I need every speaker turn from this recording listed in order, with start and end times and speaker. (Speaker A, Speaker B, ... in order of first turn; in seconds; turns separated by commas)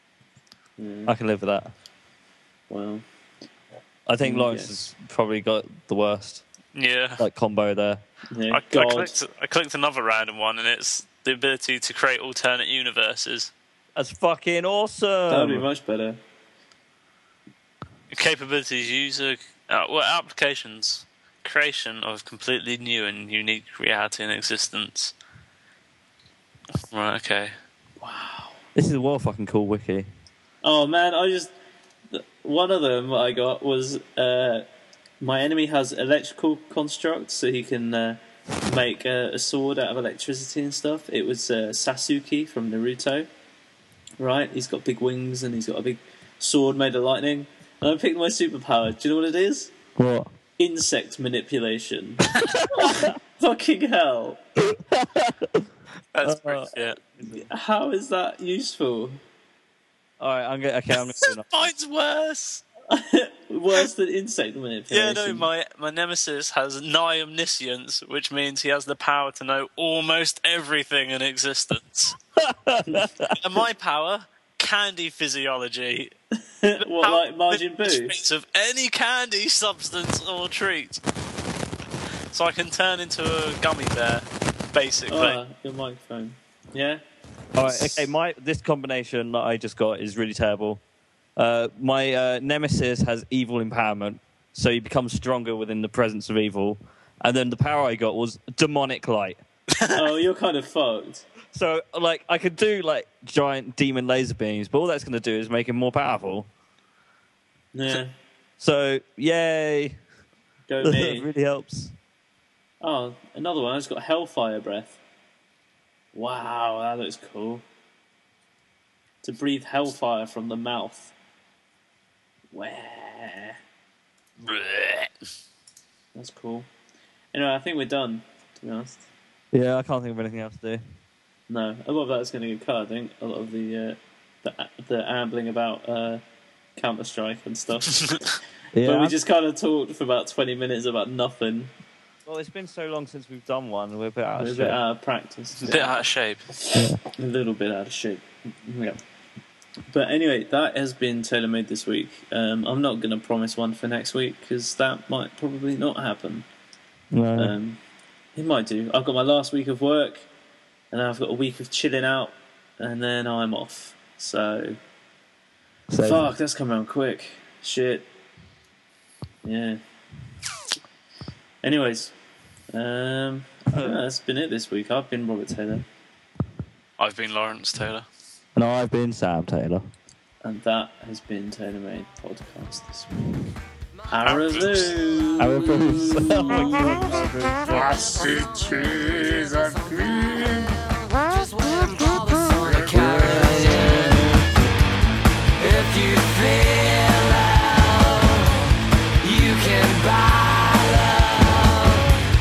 Speaker A: 0.8-1.1, Speaker B: 1.1-1.7, Speaker A: 2.7-3.0, Speaker B: 4.0-6.4, Speaker A: 4.2-4.7, Speaker C: 6.7-7.2, Speaker B: 7.2-8.0, Speaker A: 8.3-9.2, Speaker C: 8.5-13.5, Speaker B: 13.9-15.7, Speaker A: 15.3-16.2, Speaker C: 18.1-25.1, Speaker C: 26.9-27.5, Speaker A: 28.0-28.6, Speaker B: 28.7-30.1, Speaker A: 30.6-31.5, Speaker A: 32.1-34.6, Speaker A: 35.2-43.3, Speaker A: 44.2-49.7, Speaker B: 50.0-50.3, Speaker A: 50.6-54.4, Speaker B: 52.4-53.1, Speaker B: 54.6-55.7, Speaker C: 56.1-57.0, Speaker B: 56.2-57.5, Speaker A: 57.3-59.2, Speaker B: 60.2-61.5, Speaker C: 61.1-62.6, Speaker A: 62.9-65.5, Speaker C: 64.9-72.2, Speaker B: 72.3-73.4, Speaker C: 73.3-76.1, Speaker A: 76.6-78.1, Speaker C: 76.8-81.0, Speaker C: 82.3-85.4, Speaker A: 85.1-87.0, Speaker B: 87.5-90.8, Speaker A: 87.6-88.1, Speaker B: 91.4-99.4, Speaker A: 99.9-101.2, Speaker B: 101.5-106.5, Speaker A: 107.7-108.1, Speaker B: 108.6-110.0, Speaker A: 110.7-111.3, Speaker B: 110.8-111.9, Speaker A: 112.8-115.0, Speaker A: 116.1-117.6, Speaker A: 119.2-121.1, Speaker A: 122.5-123.6, Speaker C: 124.4-125.1, Speaker A: 126.1-126.7, Speaker A: 127.3-129.1, Speaker B: 129.5-130.8, Speaker A: 131.5-136.2, Speaker A: 136.8-138.0, Speaker B: 138.7-139.1, Speaker A: 138.8-141.7, Speaker B: 142.2-144.8, Speaker A: 144.4-146.0, Speaker C: 145.6-146.4, Speaker A: 146.6-149.0, Speaker A: 149.9-156.4, Speaker B: 157.1-157.5, Speaker A: 157.3-157.8, Speaker A: 158.3-160.3, Speaker A: 160.9-164.8, Speaker B: 165.9-166.2, Speaker A: 166.0-168.1, Speaker A: 169.4-169.8, Speaker A: 171.6-172.1, Speaker A: 172.7-175.8, Speaker C: 177.0-178.1, Speaker B: 178.6-179.9, Speaker A: 180.4-183.3, Speaker A: 184.1-190.0, Speaker C: 184.2-184.9, Speaker B: 185.4-187.3, Speaker D: 187.7-194.4, Speaker B: 192.9-194.4, Speaker D: 195.6-202.2